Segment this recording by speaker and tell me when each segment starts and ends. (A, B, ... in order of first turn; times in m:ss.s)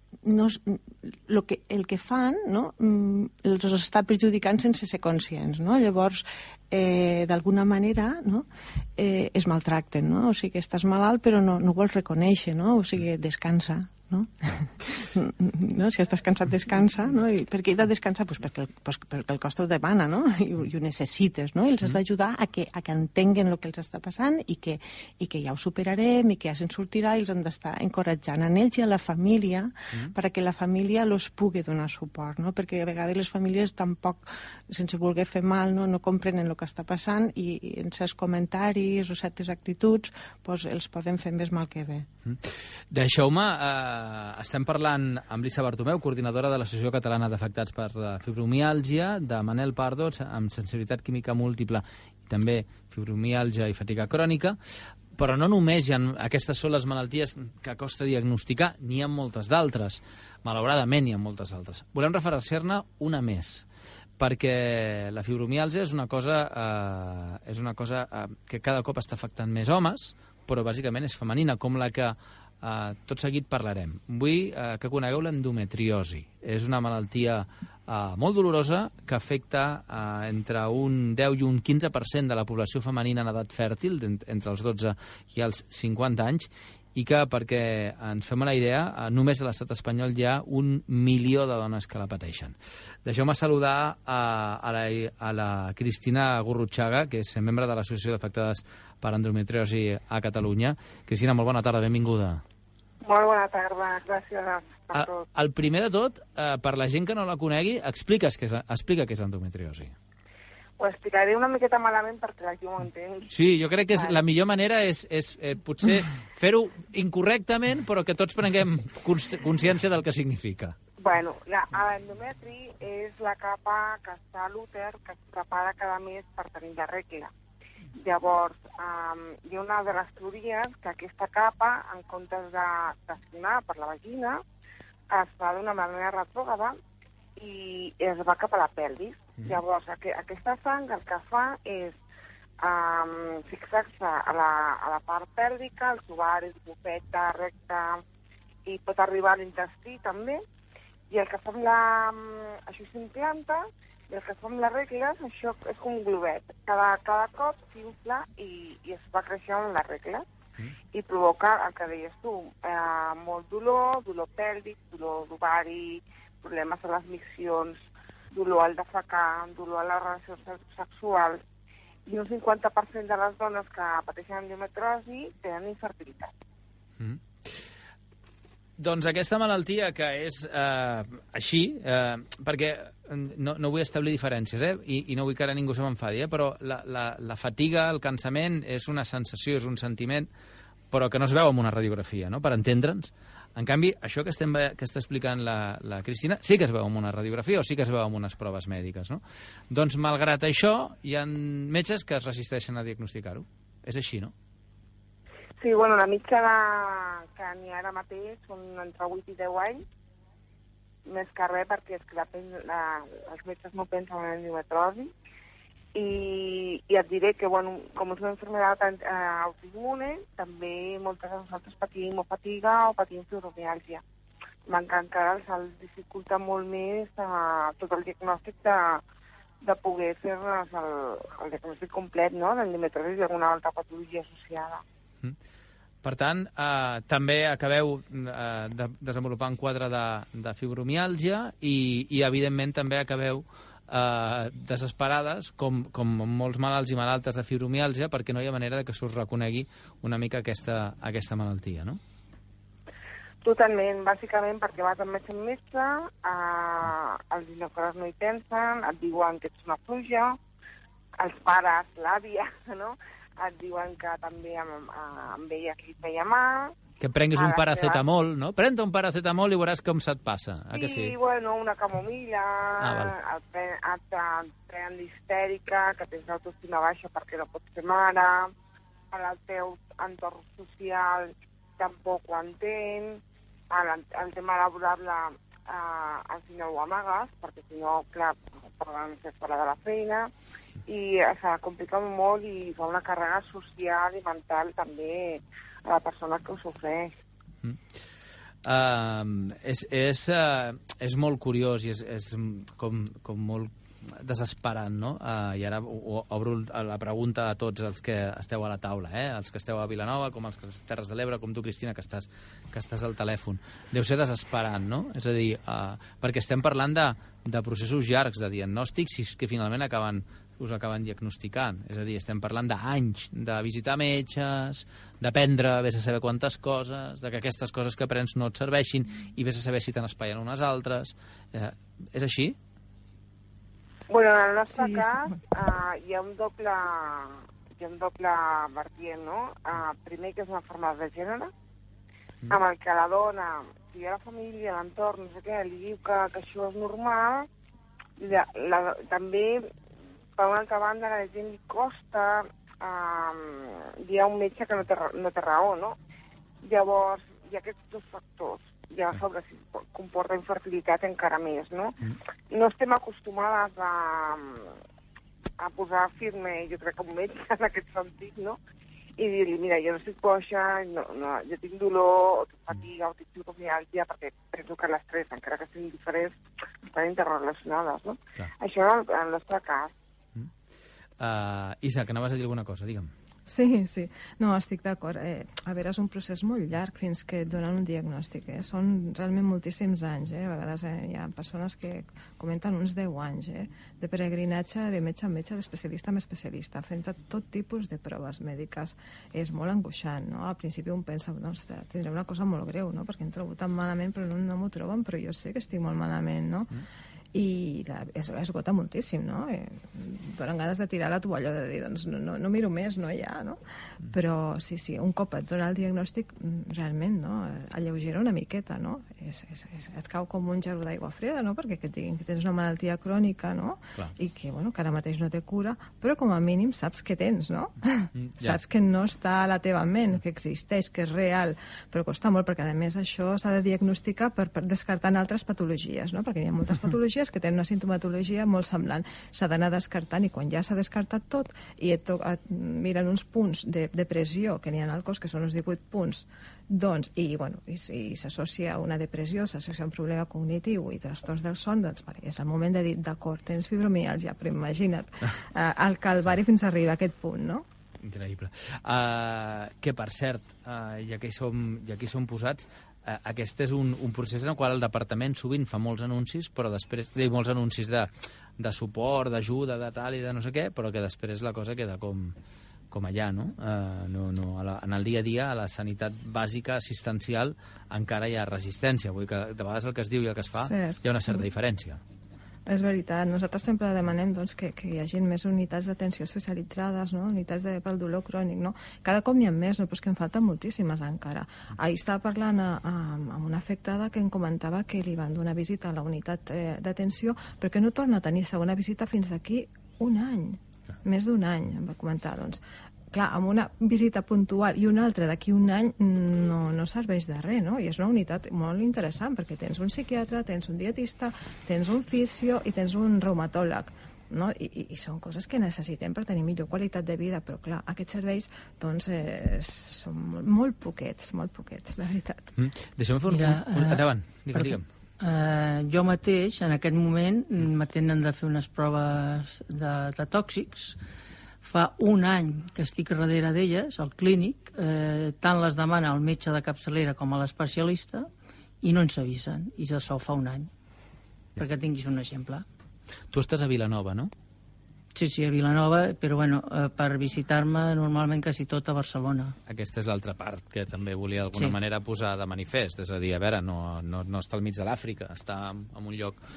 0:00.2-0:42.1 A
0:42.2-0:54.6 B
0:55.2-1:03.6 B
1:04.2-1:42.4 B
1:43.0-1:45.2 C
1:44.9-1:49.9 B
1:50.8-1:53.3 C
1:53.3-2:00.8 B
1:53.9-1:54.2 C
2:01.0-2:07.3 C
2:08.0-2:14.4 C
2:15.1-2:16.8 C
2:17.4-2:22.0 C
2:22.6-2:28.0 C
2:28.7-2:30.4 C
2:31.1-2:40.3 C
2:40.9-2:47.8 C
2:48.3-2:51.4 C
2:52.1-2:56.3 C
2:57.0-2:57.6 B
2:58.8-3:10.3 B
3:10.9-3:24.3 B
3:25.6-3:29.8 C
3:31.1-3:35.1 C
3:36.0-3:44.0 C
3:44.7-3:49.0 C
3:49.6-3:54.8 C
3:56.0-4:12.0 B
4:13.4-4:20.4 C
4:21.2-4:26.8 C
4:27.0-4:31.1 B
4:27.4-4:28.0 C
4:30.7-4:38.5 C
4:32.8-4:33.1 B
4:39.1-4:50.3 C
4:50.9-4:57.1 C
4:58.6-5:32.6 B
5:34.1-5:41.5 C
5:42.5-5:47.5 C
5:48.2-5:49.7 C
5:50.4-5:56.0 C
5:56.6-6:02.0 C
6:02.5-6:04.7 C
6:05.6-6:08.6 C
6:09.2-6:19.9 C
6:21.2-6:23.1 B
6:23.5-6:46.7 D
6:47.3-7:37.6 D
7:08.2-7:08.6 B
7:38.0-7:52.4 B
7:52.9-8:02.0 B
8:00.6-8:01.4 D
8:02.7-8:42.5 D
8:42.6-8:44.8 B
8:43.3-8:51.0 E
8:51.6-8:58.3 E
8:58.8-9:00.7 E
9:01.6-9:02.6 E
9:03.3-9:04.3 B
9:05.2-9:09.6 E
9:09.7-9:16.4 B